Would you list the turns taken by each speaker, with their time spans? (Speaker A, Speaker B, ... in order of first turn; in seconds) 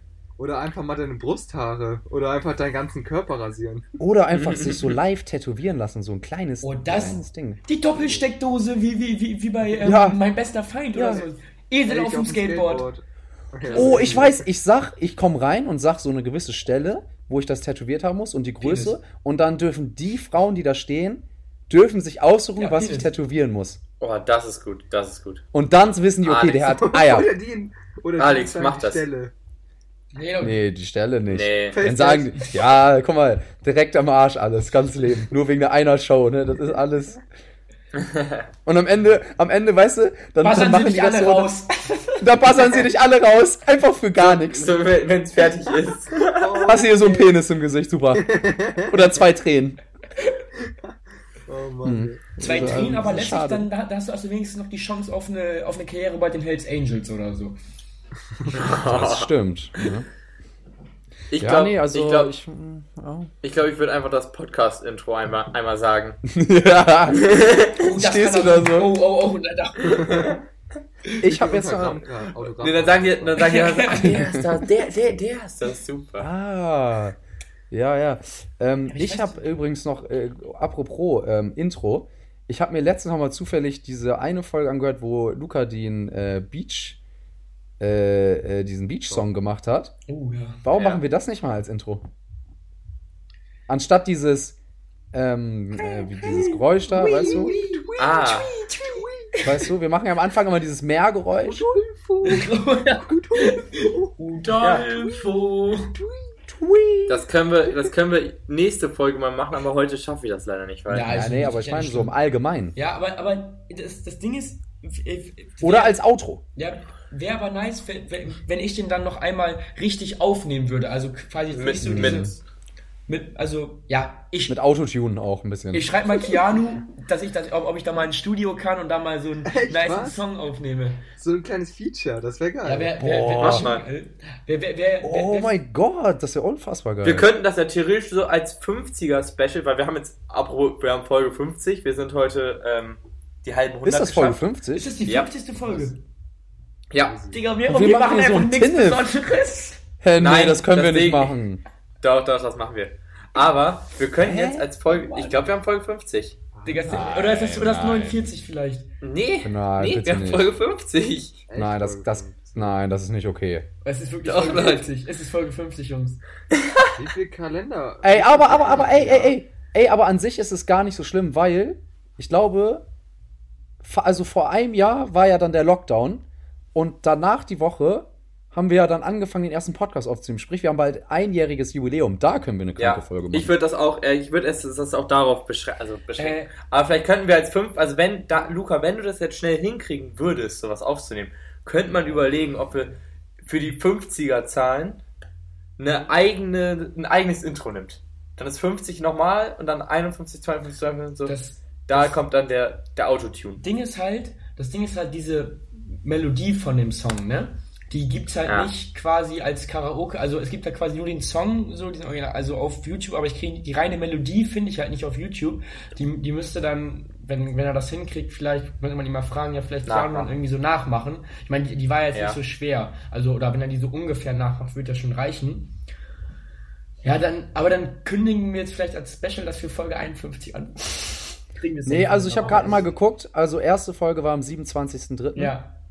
Speaker A: 0.4-3.9, 11.8-14.4, 26.6-29.3, 31.7-32.6, 46.3-47.2, 48.1-49.0, 51.5-52.9, 69.8-70.4, 71.2-73.5, 96.9-99.3, 101.4-105.3, 105.9-106.4, 129.5-130.2, 131.2-133.0, 147.0-147.4, 156.5-157.1, 161.5-162.8, 166.9-169.4
Speaker B: 4.0-7.6, 9.8-10.2, 10.9-11.2, 13.7-23.8, 25.5-27.3, 30.4-37.2, 38.6-41.6, 42.2-44.8, 46.6-49.8, 51.8-53.7, 58.7-60.1, 61.4-63.3, 66.3-67.3, 67.8-68.9, 71.2-72.0, 74.0-74.5, 76.2-77.2, 77.7-87.0, 87.8-89.9, 90.6-92.0, 93.7-94.6, 95.1-97.6, 99.4-101.6, 106.5-107.2, 111.0-112.8, 115.6-116.4, 121.8-122.3, 124.5-125.9, 133.0-133.7, 135.0-137.3, 143.8-144.9, 147.7-149.1, 150.0-151.6, 154.2-154.7, 156.9-158.2, 159.4-160.6, 161.5-163.7, 168.0-172.8, 173.8-183.5, 231.8-235.6
Speaker C: 4.3-4.9, 24.0-25.4, 26.2-26.8, 28.2-29.1, 31.3-31.8, 37.9-38.4, 44.2-46.7, 58.5-59.9, 61.3-62.3, 63.4-66.2, 67.1-67.9, 72.6-76.3, 90.7-91.0, 98.0-98.5, 107.1-111.1, 121.5-122.4, 133.4-133.8, 137.0-144.4, 146.9-147.2, 150.2-151.3, 152.0-158.0, 159.0-161.4, 164.2-164.8, 166.5-166.9, 182.8-195.0, 195.8-203.6, 208.5-208.7, 219.9-220.3, 222.1-222.4
Speaker D: 6.6-12.9, 13.6-14.4, 18.6-19.0, 22.6-23.1, 30.1-30.6, 40.4-42.5, 46.8-47.2, 52.4-57.6, 67.8-70.4, 73.3-74.2, 78.9-79.5, 90.1-90.6, 95.8-99.7, 102.2-105.9, 110.9-112.1, 112.7-116.0, 116.5-122.3, 123.1-124.6, 125.7-131.0, 132.6-135.6, 144.7-146.0, 147.3-149.8, 156.6-158.9, 163.8-166.2, 186.2-186.5, 201.2-202.1, 203.6-225.8, 227.0-232.9, 235.3-235.8